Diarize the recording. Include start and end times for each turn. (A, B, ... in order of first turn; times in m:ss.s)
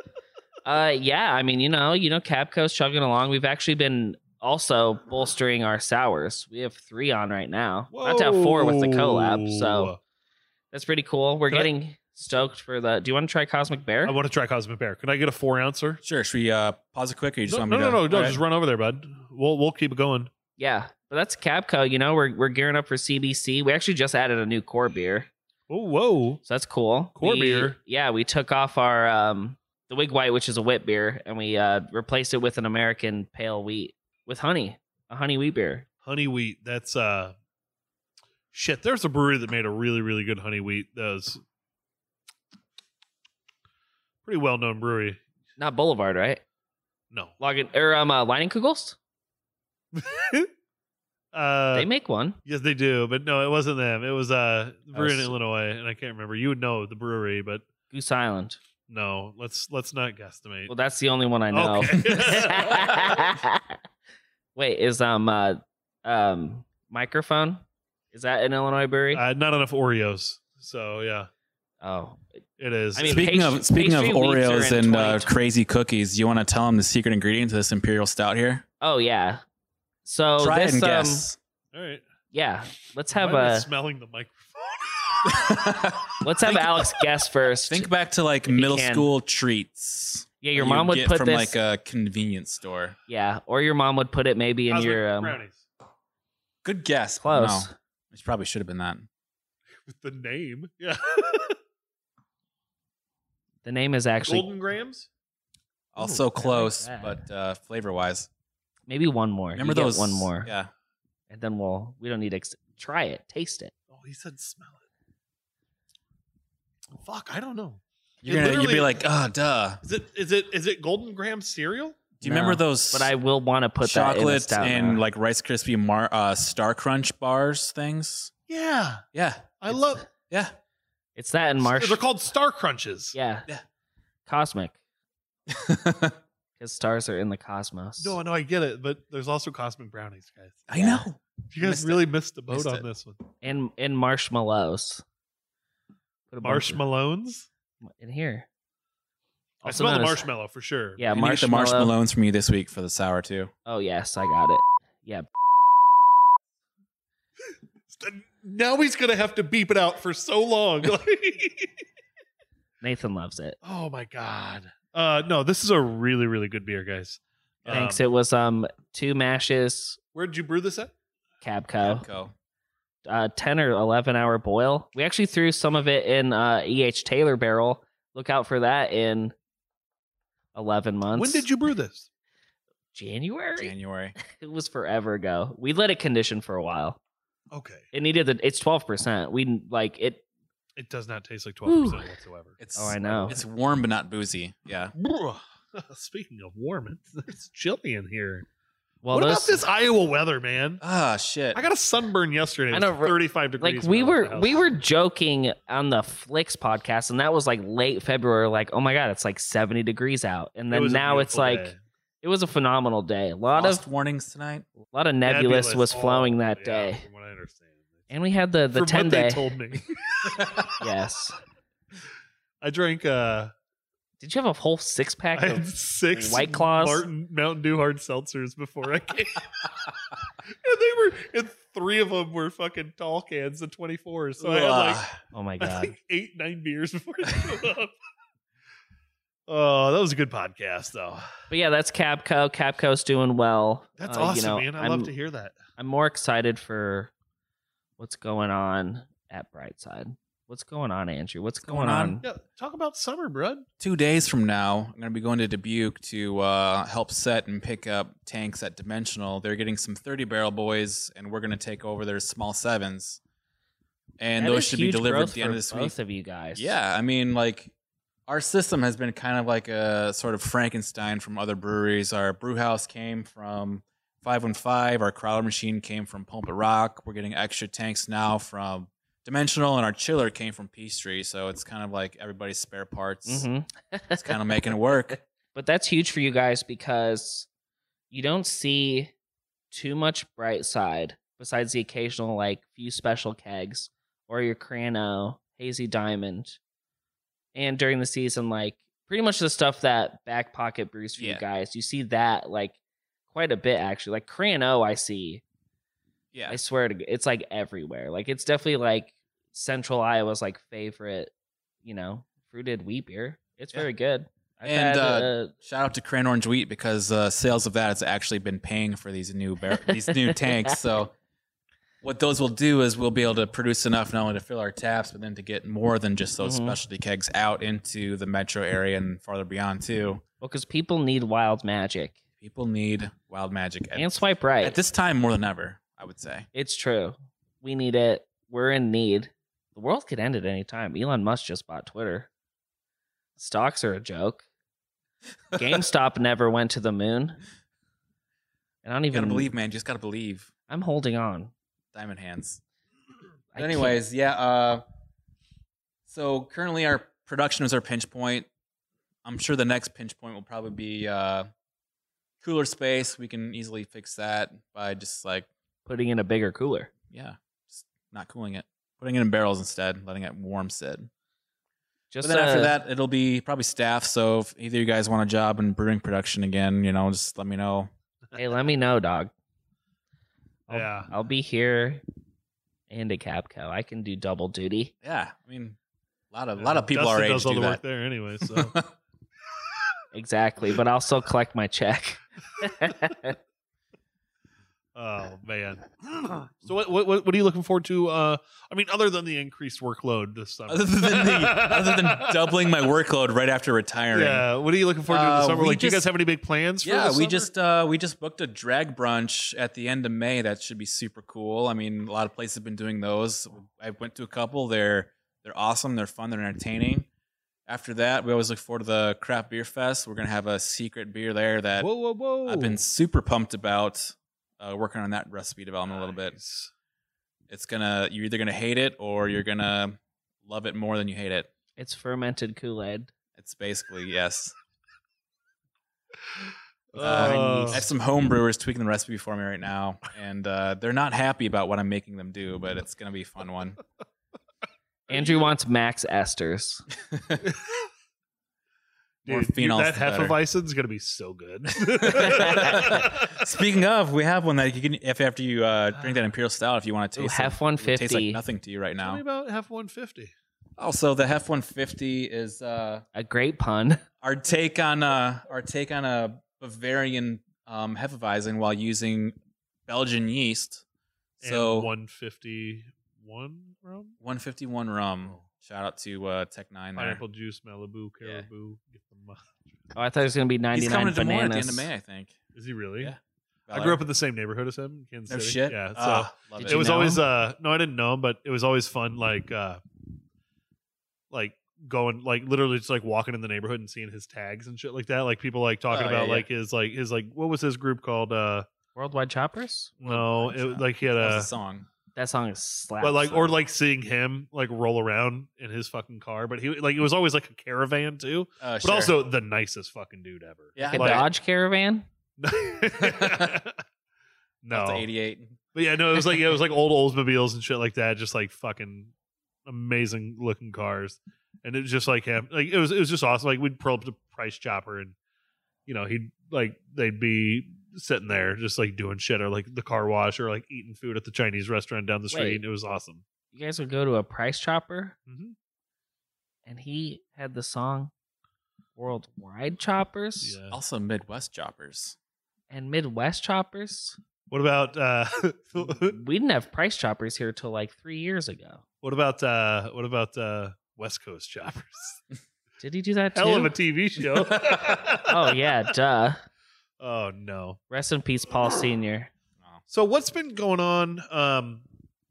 0:00.6-0:09.9 A
0:07.9-0:10.0 B
0:10.7-0:14.1 A
0:14.0-0:16.0 B
0:16.0-0:18.4 C
0:17.5-0:20.3 B
0:20.6-0:25.3 A
0:25.7-0:26.4 B
0:26.4-0:35.9 A
0:27.2-0:27.8 B
0:36.0-0:37.3 B
0:38.5-0:41.4 B
0:44.2-0:45.2 B
0:45.6-0:46.4 A
0:47.4-0:49.0 A
0:49.9-0:50.5 B
0:51.3-0:51.9 B
0:51.7-0:52.4 A
0:52.4-0:57.7 B
0:54.9-0:55.3 A
0:57.9-0:58.6 A
0:58.9-1:00.7 B
1:00.7-1:03.8 A
1:01.5-1:03.2 B
1:04.6-1:09.2 A
1:09.1-1:11.3 B
1:11.8-1:12.2 A
1:12.6-1:13.3 B
1:13.0-1:15.3 A
1:13.0-1:18.6 C
1:18.8-1:19.4 A
1:20.0-1:21.3 A
1:20.4-1:21.4 C
1:21.7-1:22.0 B
1:22.3-1:23.7 A
1:23.1-1:25.6 B
1:25.2-1:26.9 C
1:26.2-1:27.9 A
1:27.7-1:33.0 C
1:28.5-1:29.1 A
1:30.4-1:31.6 A
1:33.1-1:35.4 A
1:34.7-1:35.6 B
1:36.6-1:39.1 C
1:37.2-1:37.7 A
1:39.8-1:41.6 B
1:43.6-1:44.5 A
1:44.3-1:45.1 B
1:45.9-1:48.3 C
1:46.0-1:47.2 A
1:48.9-1:50.5 A
1:49.6-1:50.7 C
1:51.3-1:53.7 A
1:53.9-1:54.8 B
1:56.9-1:59.0 B
1:58.2-1:59.8 C
1:59.8-2:02.1 B
2:02.2-2:03.1 C
2:02.2-2:05.0 A
2:03.8-2:08.3 C
2:08.5-2:09.0 B
2:09.1-2:09.8 C
2:09.6-2:10.0 B
2:11.2-2:12.0 A
2:11.6-2:13.2 B
2:13.1-2:13.5 A
2:14.3-2:14.8 A
2:15.5-2:16.2 C
2:16.6-2:18.2 A
2:18.0-2:20.7 B
2:20.7-2:22.8 C
2:20.7-2:21.0 A
2:21.5-2:23.2 B
2:23.4-2:25.0 A
2:26.3-2:26.8 A
2:26.4-2:27.5 B
2:27.8-2:28.5 A
2:29.6-2:31.0 B
2:29.6-2:30.3 A
2:31.0-2:31.9 A
2:31.1-2:33.5 C
2:33.7-2:35.3 A
2:37.9-2:41.7 B
2:42.8-2:43.6 A
2:43.6-2:48.0 B
2:47.7-2:50.0 A
2:50.2-2:50.9 B
2:51.4-2:52.1 A
2:51.8-2:52.3 C
2:53.0-2:59.3 A
3:00.5-3:01.5 A
3:01.2-3:02.1 B
3:02.9-3:07.0 A
3:03.6-3:04.2 C
3:07.5-3:07.9 B
3:07.9-3:10.2 A
3:10.8-3:13.3 B
3:11.7-3:12.1 A
3:12.6-3:14.9 C
3:12.8-3:13.4 A
3:15.0-3:18.5 B
3:19.0-3:19.6 A
3:19.1-3:20.8 B
3:20.8-3:21.7 C
3:21.5-3:24.7 B
3:22.7-3:33.8 A
3:30.7-3:31.8 B
3:33.5-3:34.7 C
3:34.9-3:37.0 A
3:35.3-3:37.8 B
3:38.1-3:39.5 A
3:38.7-3:40.7 B
3:40.3-3:40.6 C
3:40.8-3:41.4 A
3:42.6-3:43.5 B
3:44.2-3:47.0 A
3:45.4-3:49.7 B
3:50.5-3:55.1 B
3:54.4-3:55.2 C
3:55.3-3:55.9 A
3:55.6-3:57.9 B
3:59.5-4:01.2 B
4:01.5-4:05.1 A
4:04.0-4:05.6 B
4:05.8-4:07.1 A
4:08.0-4:12.2 A
4:11.7-4:12.2 C
4:12.2-4:13.6 B
4:13.8-4:23.2 C
4:24.2-4:25.9 C
4:24.4-4:26.8 A
4:26.6-4:27.7 C
4:28.3-4:43.5 C
4:43.3-4:44.4 A
4:44.2-4:45.2 C
4:45.5-4:47.5 A
4:48.1-4:49.1 A
4:49.7-4:56.6 A
4:57.6-5:02.8 A
5:01.2-5:01.4 C
5:03.3-5:05.4 A
5:06.3-5:06.6 C
5:06.5-5:11.3 A
5:11.8-5:15.5 A
5:14.6-5:21.1 C
5:19.8-5:20.8 A
5:22.0-5:30.2 C
5:26.4-5:26.8 A
5:30.4-5:32.2 A
5:32.4-5:36.5 C
5:34.0-5:34.8 A
5:36.5-5:42.3 A
5:43.4-5:44.4 A
5:45.5-5:47.4 A
5:48.8-5:49.5 A
5:49.1-5:50.5 C
5:50.7-5:51.5 A
5:51.9-5:52.6 C
5:53.5-5:54.0 A
5:53.6-5:54.8 C
5:56.1-5:58.5 C
5:59.2-6:01.5 C
6:02.4-6:05.5 C
6:05.9-6:06.9 A
6:07.1-6:11.1 C
6:12.1-6:12.8 A
6:12.2-6:17.9 C
6:18.4-6:19.3 A
6:20.7-6:22.0 A
6:20.7-6:21.1 B
6:22.9-6:24.9 A
6:25.0-6:25.8 C
6:26.3-6:27.8 C
6:26.6-6:28.7 B
6:28.4-6:28.9 C
6:30.1-6:33.4 A
6:35.0-6:42.6 B
6:40.7-6:44.5 C
6:44.1-6:47.5 B
6:45.1-6:46.0 C
6:46.8-6:57.1 C
6:57.7-7:01.9 C
7:01.8-7:02.8 B
7:02.5-7:06.4 C
7:06.0-7:06.7 B
7:07.5-7:11.5 C
7:11.8-7:13.1 A
7:13.4-7:14.5 C
7:16.4-7:17.9 B
7:17.0-7:17.8 A
7:17.0-7:23.8 C
7:25.1-7:26.9 A
7:25.1-7:25.5 B
7:27.1-7:27.4 C
7:29.3-7:33.4 B
7:29.3-7:30.4 C
7:32.0-7:39.2 C
7:32.2-7:33.0 A
7:37.2-7:38.4 A
7:39.0-7:40.3 B
7:40.8-7:43.0 C
7:43.1-7:44.0 A
7:44.2-7:49.4 C
7:49.9-7:50.8 C
7:51.4-7:54.2 B
7:51.4-7:51.9 C
7:54.2-7:57.2 C
7:57.0-7:59.8 B
8:00.0-8:01.9 A
8:00.7-8:02.4 C
8:02.6-8:03.1 B
8:03.0-8:04.0 C
8:03.7-8:09.8 B
8:05.3-8:06.9 C
8:06.6-8:07.2 A
8:11.3-8:18.7 B
8:15.9-8:16.5 A
8:19.0-8:20.0 A
8:20.0-8:21.5 B
8:20.0-8:21.9 C
8:22.2-8:23.6 A
8:23.0-8:31.3 B
8:28.6-8:29.2 C
8:30.8-8:31.3 C
8:30.8-8:32.1 A
8:32.4-8:33.8 B
8:34.6-8:35.0 B
8:34.7-8:35.6 C
8:35.8-8:39.1 B
8:39.7-8:45.2 B
8:45.9-8:53.2 B
8:52.3-8:52.6 A
8:53.5-8:55.2 A
8:55.3-8:55.6 B
8:56.7-8:58.1 A
8:59.0-9:00.6 A
9:00.4-9:00.8 B
9:00.7-9:02.2 C
9:02.7-9:04.2 A
9:04.5-9:06.2 B
9:05.8-9:08.8 A
9:09.0-9:12.2 B
9:12.8-9:13.7 A
9:13.4-9:15.9 B
9:14.5-9:15.0 C
9:15.3-9:16.4 A
9:17.0-9:17.8 B
9:17.9-9:19.3 A
9:19.9-9:21.8 B